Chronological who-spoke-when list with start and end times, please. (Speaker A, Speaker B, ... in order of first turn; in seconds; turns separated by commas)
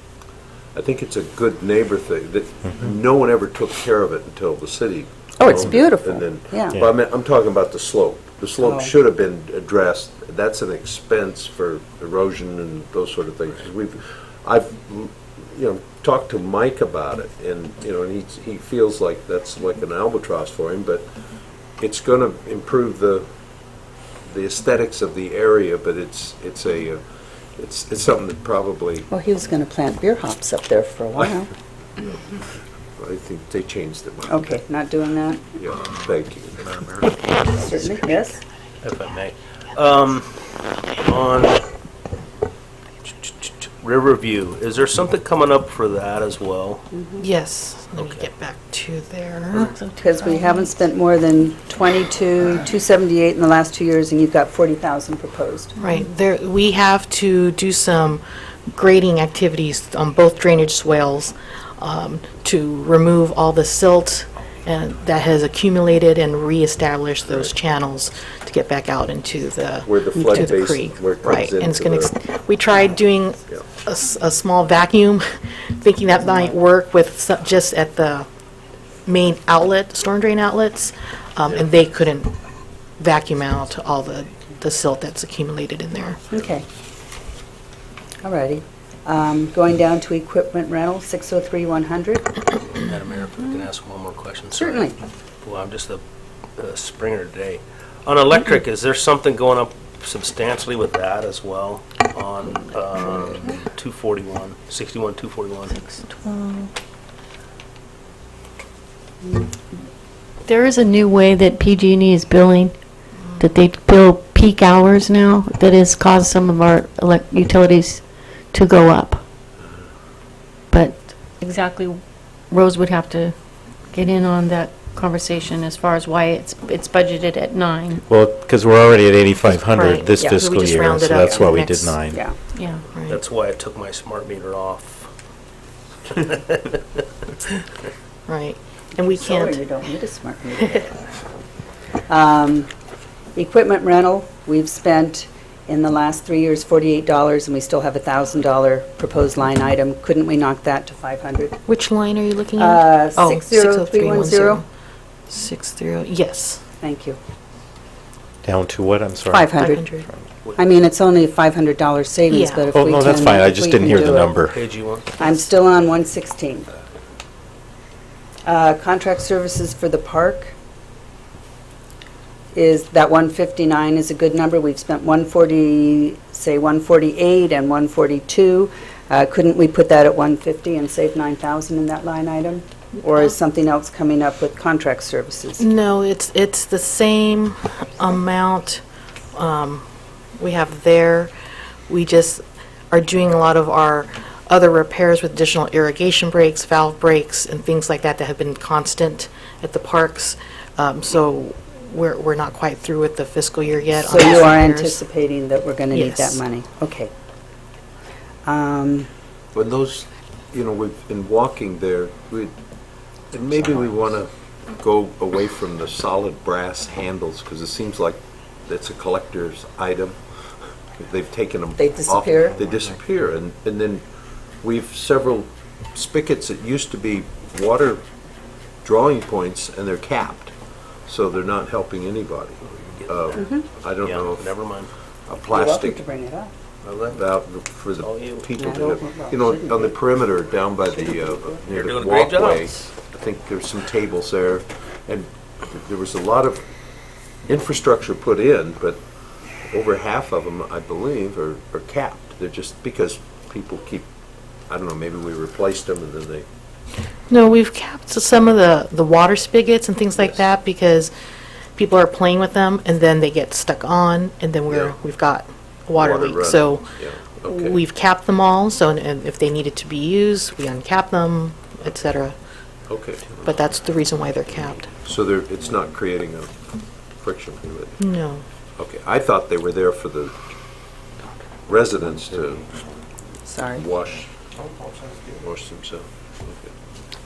Speaker A: 0.8-21.1, Speaker B: 5.4-6.8, Speaker B: 8.6-8.9, Speaker A: 21.8-23.3, Speaker A: 24.2-27.0, Speaker A: 27.6-29.1, Speaker B: 29.1-31.5, Speaker A: 33.0-34.6, Speaker B: 34.3-35.5, Speaker A: 35.6-36.9, Speaker B: 37.4-38.4, Speaker C: 38.8-40.3, Speaker C: 41.0-41.7, Speaker C: 43.2-46.9, Speaker B: 46.9-47.3, Speaker D: 47.2-49.7, Speaker E: 49.5-50.8, Speaker B: 50.0-55.8, Speaker D: 55.8-78.3, Speaker A: 69.8-72.1, Speaker B: 70.2-70.5, Speaker D: 79.1-82.3, Speaker D: 83.0-86.2, Speaker B: 86.3-86.7, Speaker B: 88.2-92.3, Speaker C: 92.7-96.0, Speaker B: 94.5-95.0, Speaker C: 96.6-105.8, Speaker E: 105.7-106.7, Speaker E: 110.5-112.7, Speaker E: 113.4-119.2, Speaker E: 120.7-123.3, Speaker E: 123.9-128.0, Speaker F: 128.1-132.2, Speaker D: 129.4-132.0, Speaker B: 130.2-131.5, Speaker B: 132.1-132.3, Speaker E: 132.5-132.8, Speaker D: 132.9-133.2, Speaker C: 133.1-135.1, Speaker C: 136.1-137.0, Speaker D: 138.3-139.6, Speaker B: 139.2-140.9, Speaker B: 142.1-142.7, Speaker B: 143.3-151.6, Speaker D: 151.7-154.7, Speaker B: 152.6-154.6, Speaker D: 155.3-156.6, Speaker B: 156.8-157.2, Speaker F: 158.4-160.3, Speaker B: 159.3-159.9, Speaker D: 159.6-160.1, Speaker B: 160.6-164.3, Speaker D: 162.3-162.7, Speaker F: 162.7-164.7, Speaker C: 164.4-165.2, Speaker B: 165.2-166.7, Speaker B: 168.4-170.5, Speaker B: 172.5-185.7, Speaker D: 185.6-188.8, Speaker D: 189.3-189.8, Speaker D: 190.4-191.3, Speaker D: 191.9-205.0, Speaker B: 204.0-207.1, Speaker D: 205.9-206.4, Speaker B: 208.5-209.1, Speaker A: 209.5-212.5, Speaker A: 213.3-220.2, Speaker A: 221.0-224.0, Speaker B: 221.8-222.6, Speaker A: 224.6-228.0, Speaker A: 228.8-230.5, Speaker A: 231.1-234.5, Speaker C: 232.7-234.9, Speaker B: 233.4-233.6, Speaker A: 235.3-236.0, Speaker B: 235.5-236.5, Speaker C: 236.8-237.2, Speaker A: 237.1-246.6, Speaker C: 238.0-238.5, Speaker B: 238.6-239.9, Speaker B: 241.1-241.4, Speaker C: 241.6-242.8, Speaker A: 247.5-249.0, Speaker A: 249.7-254.1, Speaker A: 254.7-256.4, Speaker D: 257.3-261.1, Speaker D: 261.8-266.9, Speaker A: 264.7-264.9, Speaker A: 266.0-267.8, Speaker D: 267.4-272.4, Speaker A: 272.9-273.5, Speaker D: 273.4-274.9, Speaker A: 274.9-276.6, Speaker A: 277.2-278.0, Speaker D: 278.0-278.4, Speaker A: 278.8-280.3, Speaker A: 281.7-282.7, Speaker B: 283.5-283.9, Speaker A: 283.7-284.3, Speaker A: 285.4-286.7